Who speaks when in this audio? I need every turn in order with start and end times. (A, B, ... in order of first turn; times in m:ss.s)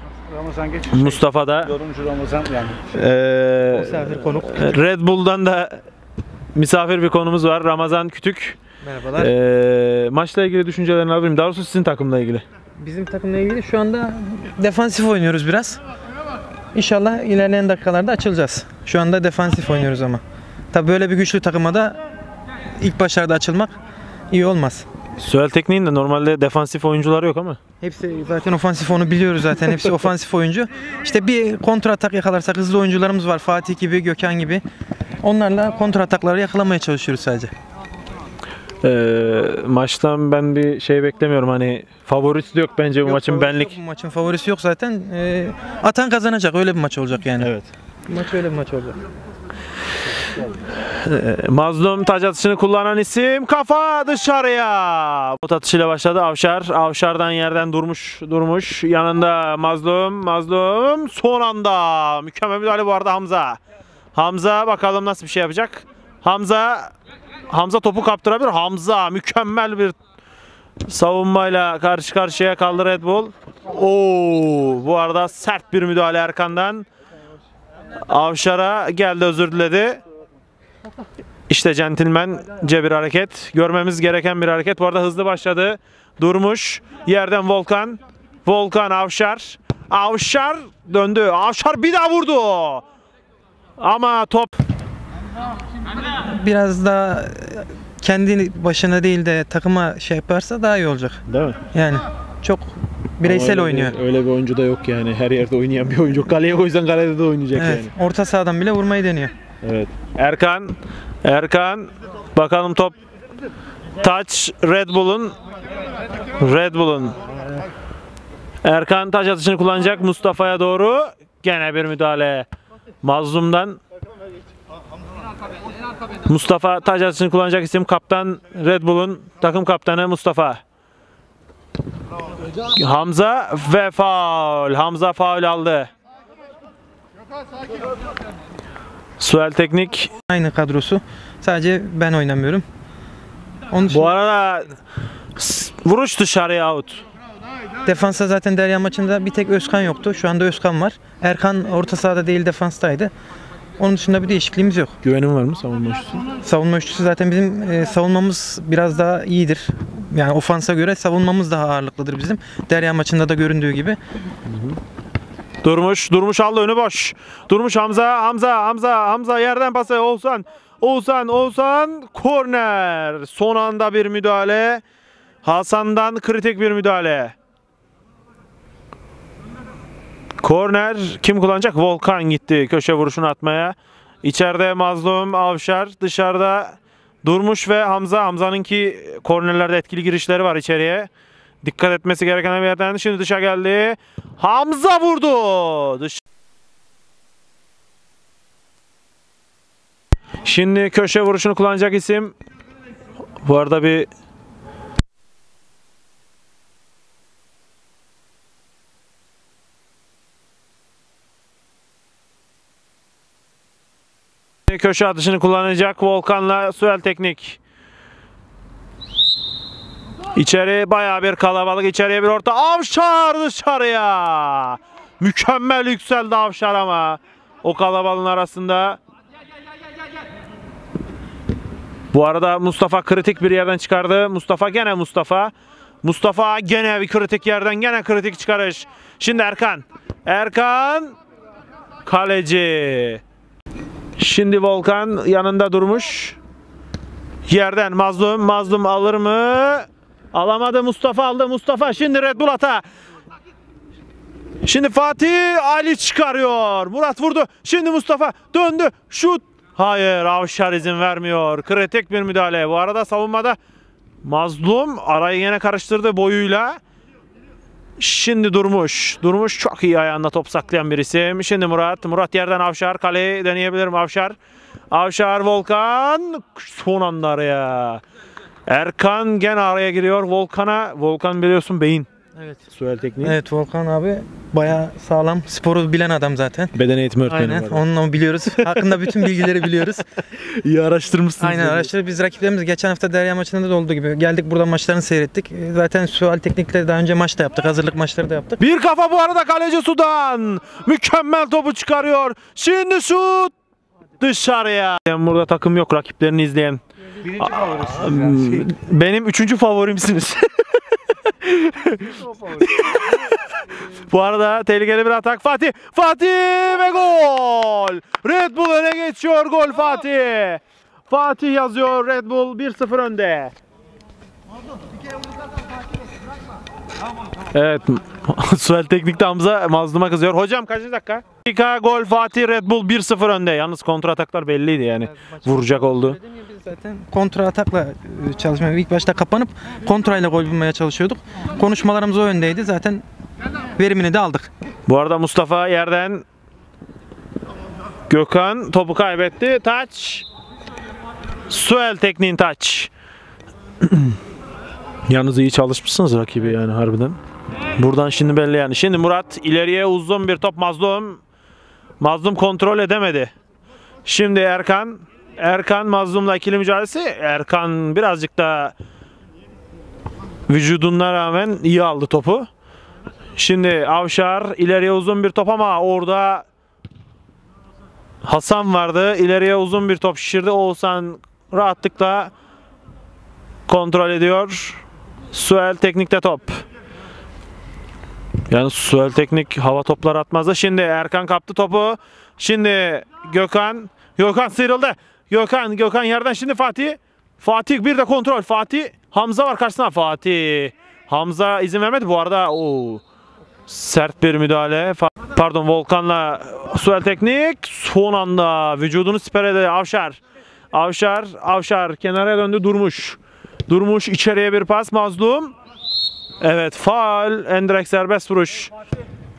0:00.2-0:02.8 A
0:00.9-0:01.7 B
0:02.9-0:05.8 B
0:03.7-0:04.8 C
0:06.5-0:08.6 B
0:08.8-0:09.3 C
0:09.2-0:12.4 B
0:12.8-0:15.8 C
0:16.7-0:22.0 C
0:22.8-0:23.8 C
0:24.3-0:24.9 C
0:25.2-0:27.6 B
0:27.8-0:34.6 C
0:35.2-0:37.5 C
0:38.8-0:43.8 B
0:43.0-0:47.5 C
0:47.4-0:47.7 B
0:48.1-0:49.0 C
0:51.0-1:03.6 B
1:04.2-1:06.9 B
1:07.5-1:10.0 B
1:10.9-1:16.9 B
1:18.1-1:20.0 B
1:21.5-1:32.8 B
1:33.8-1:34.6 B
1:36.2-1:41.2 C
1:41.3-1:41.6 B
1:41.7-1:44.0 C
1:43.2-1:47.9 B
1:47.5-1:49.3 C
1:49.6-1:53.0 B
1:54.0-1:55.4 B
1:56.4-1:57.2 B
1:58.6-2:02.5 B
2:03.0-2:03.8 B
2:06.3-2:10.6 B
2:12.7-2:15.9 B
2:19.2-2:20.1 B
2:20.3-2:22.6 C
2:23.7-2:24.1 C
2:23.9-2:24.8 B
2:25.4-2:27.0 B
2:27.8-2:33.1 C
2:33.8-2:35.0 C
2:35.0-2:36.2 B
2:36.4-2:44.0 C
2:44.5-2:44.8 B
2:45.6-2:54.8 B
2:55.4-2:57.4 B
3:00.4-3:11.1 B
3:11.6-3:16.2 B
3:20.4-3:22.4 B
3:23.4-3:24.1 B
3:34.7-3:37.6 B
3:40.4-3:49.0 B
3:52.1-4:01.2 B
4:02.0-4:03.2 B
4:04.2-4:06.4 B
4:07.5-4:12.8 B
4:14.6-4:23.6 B
4:24.2-4:26.8 B
4:28.0-4:34.4 B
4:34.9-4:38.0 B
4:38.7-4:42.1 B
4:42.4-4:42.6 C
4:42.7-4:43.4 B
4:43.2-4:46.7 C
4:46.7-4:47.8 B
4:47.3-4:50.0 C
4:48.6-4:49.6 B
4:50.3-4:51.9 B
4:51.4-4:58.6 C
4:58.6-5:03.5 B
5:04.2-5:06.8 B
5:07.2-5:08.7 A
5:07.4-5:10.5 B
5:11.4-5:12.1 B
5:12.0-5:13.1 A
5:12.7-5:13.3 B
5:14.0-5:23.5 B
5:27.5-5:36.2 B
5:35.0-5:43.0 C
5:43.8-5:44.5 C
5:44.9-5:46.2 B
5:48.1-5:50.3 B
5:51.5-5:52.9 B
5:53.8-5:54.2 B
5:55.1-5:57.2 B
5:57.8-6:01.2 B
6:02.0-6:03.3 B
6:04.0-6:08.7 B
6:10.5-6:12.5 B
6:13.4-6:16.4 B
6:18.2-6:22.3 B
6:23.7-6:24.8 B
6:25.3-6:26.6 B
6:28.5-6:43.0 B
6:43.7-6:50.2 B
6:50.7-6:55.6 B
6:56.4-6:58.7 B